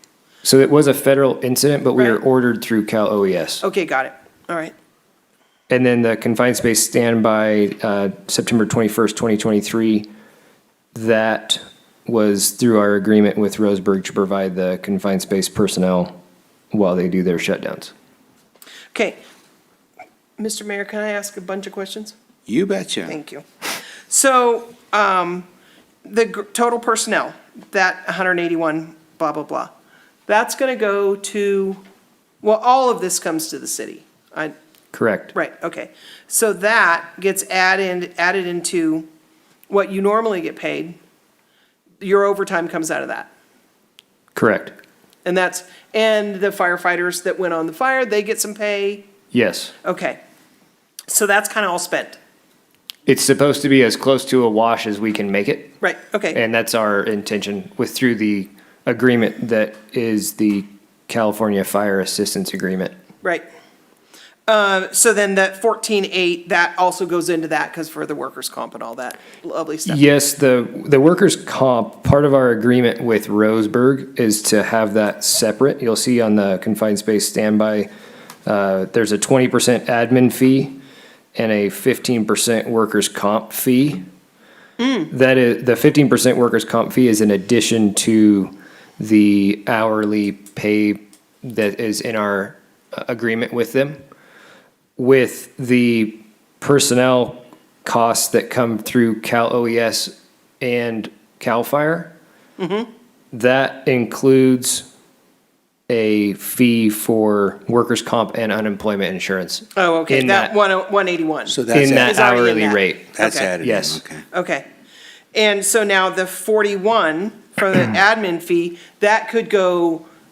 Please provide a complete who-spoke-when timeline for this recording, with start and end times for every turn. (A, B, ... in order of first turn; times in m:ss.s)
0:00.4-0:03.6 A
0:03.6-0:04.7 B
0:05.7-0:10.1 A
0:10.9-0:16.1 A
0:16.7-0:17.9 A
0:18.9-0:19.2 B
0:20.4-0:22.1 B
0:22.5-0:23.1 C
0:23.0-0:23.4 B
0:24.1-0:25.5 B
0:26.0-0:29.7 B
0:30.3-0:31.8 B
0:32.4-0:34.5 B
0:34.9-0:35.3 A
0:35.3-0:39.0 B
0:39.7-0:41.0 B
0:42.0-0:43.3 B
0:44.3-0:44.7 A
0:45.2-0:49.1 B
0:49.3-0:49.7 A
0:49.8-0:50.2 B
0:51.1-0:52.2 B
0:53.0-0:55.8 A
0:55.8-0:56.4 B
0:56.3-1:02.9 A
1:04.5-1:10.0 B
1:09.8-1:17.9 A
1:18.4-1:20.8 A
1:21.3-1:24.0 A
1:24.8-1:25.1 B
1:25.1-1:34.0 A
1:35.0-1:42.1 A
1:42.6-1:42.9 B
1:43.3-1:44.9 A
1:45.9-1:50.5 A
1:49.8-1:53.5 B
1:51.5-1:52.1 C
1:51.7-1:54.0 A
1:53.1-1:54.2 C
1:54.3-1:54.7 B
1:55.3-2:00.0 B